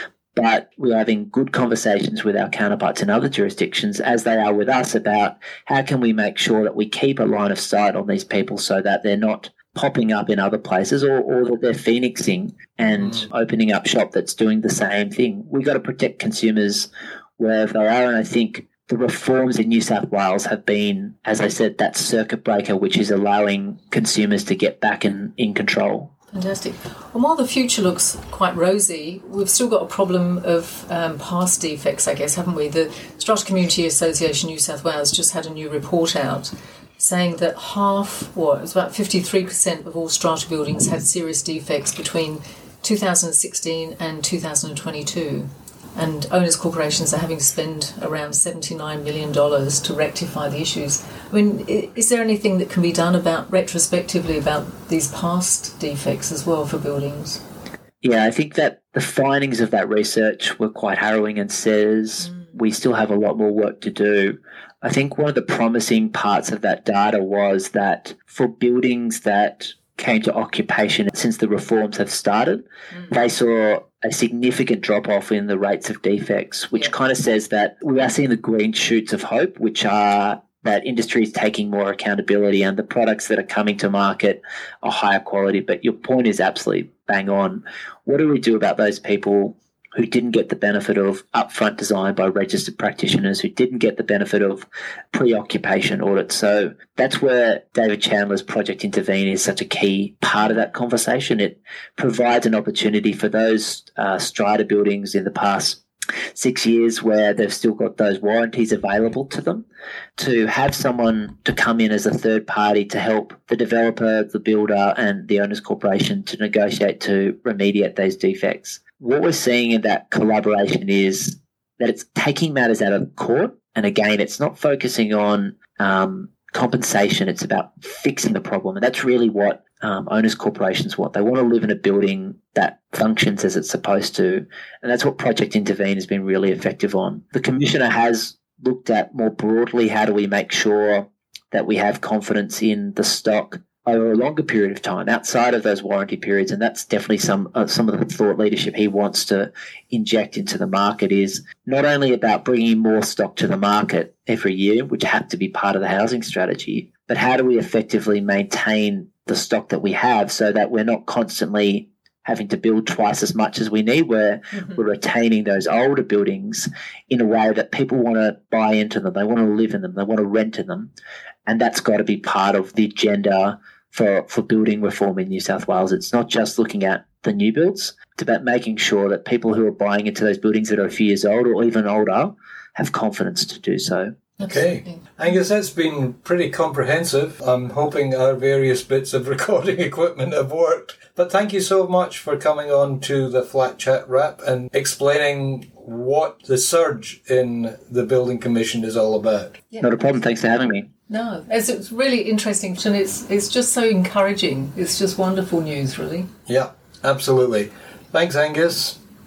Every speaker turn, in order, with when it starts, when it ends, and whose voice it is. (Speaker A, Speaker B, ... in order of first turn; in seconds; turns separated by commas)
Speaker A: 0.3-26.1, Speaker B: 26.3-57.4, Speaker A: 58.0-105.8, Speaker A: 106.3-109.7, Speaker A: 110.2-170.9, Speaker A: 171.5-184.1, Speaker C: 184.4-199.6, Speaker B: 199.7-200.0, Speaker A: 199.8-200.9, Speaker B: 201.1-206.3, Speaker C: 206.5-209.0